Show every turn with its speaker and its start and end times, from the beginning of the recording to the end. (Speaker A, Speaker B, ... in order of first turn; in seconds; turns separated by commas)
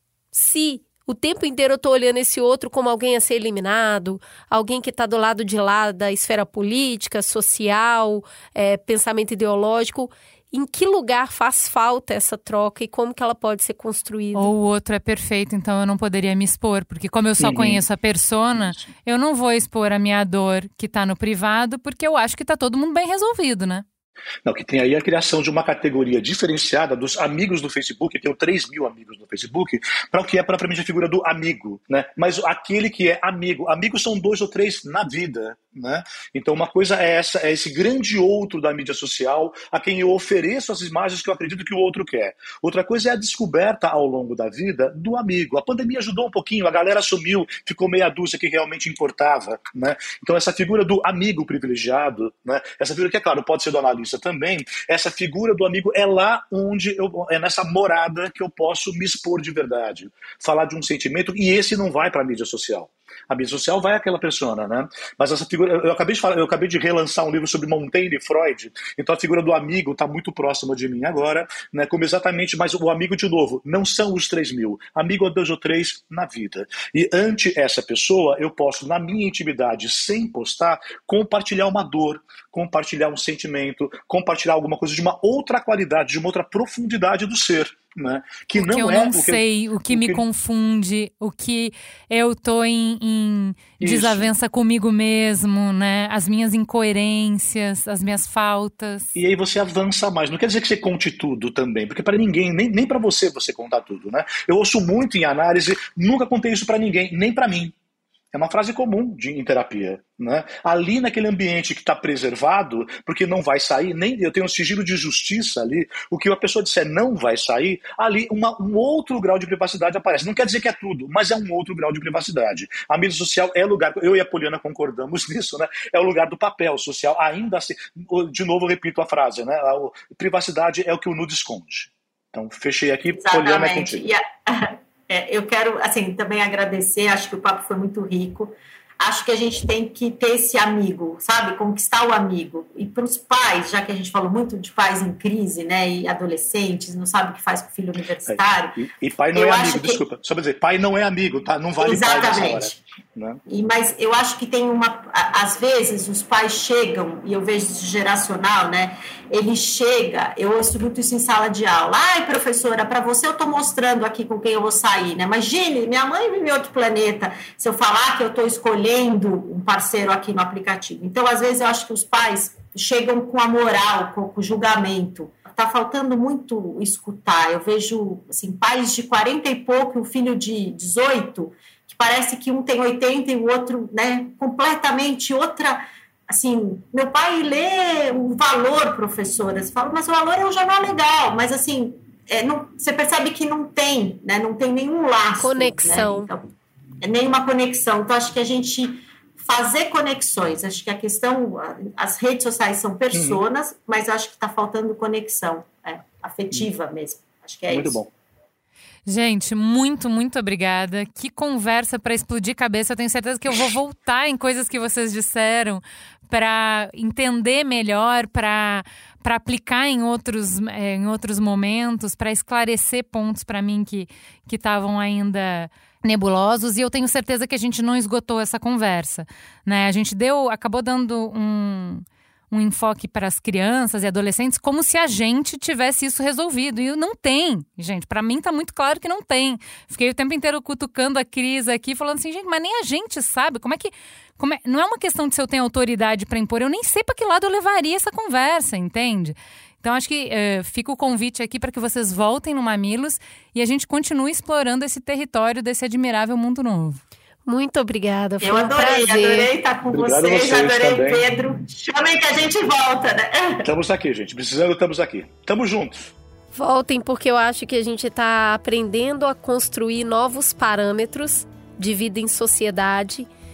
Speaker A: 0.3-14.5, Speaker B: 14.3-23.9, Speaker C: 17.4-17.8, Speaker C: 18.5-18.9, Speaker C: 24.4-90.2, Speaker B: 88.5-99.1, Speaker C: 93.8-94.3, Speaker C: 99.2-107.7, Speaker C: 108.3-134.1, Speaker D: 133.1-148.8, Speaker C: 148.3-153.4, Speaker D: 149.3-150.0, Speaker D: 151.8-152.8, Speaker D: 153.5-196.5, Speaker A: 195.4-196.3, Speaker D: 197.0-208.0, Speaker C: 203.1-203.4, Speaker C: 207.7-208.1, Speaker B: 209.1-257.0, Speaker A: 257.5-259.5, Speaker D: 258.4-263.6, Speaker C: 259.9-261.2, Speaker C: 263.6-266.1, Speaker A: 266.5-273.3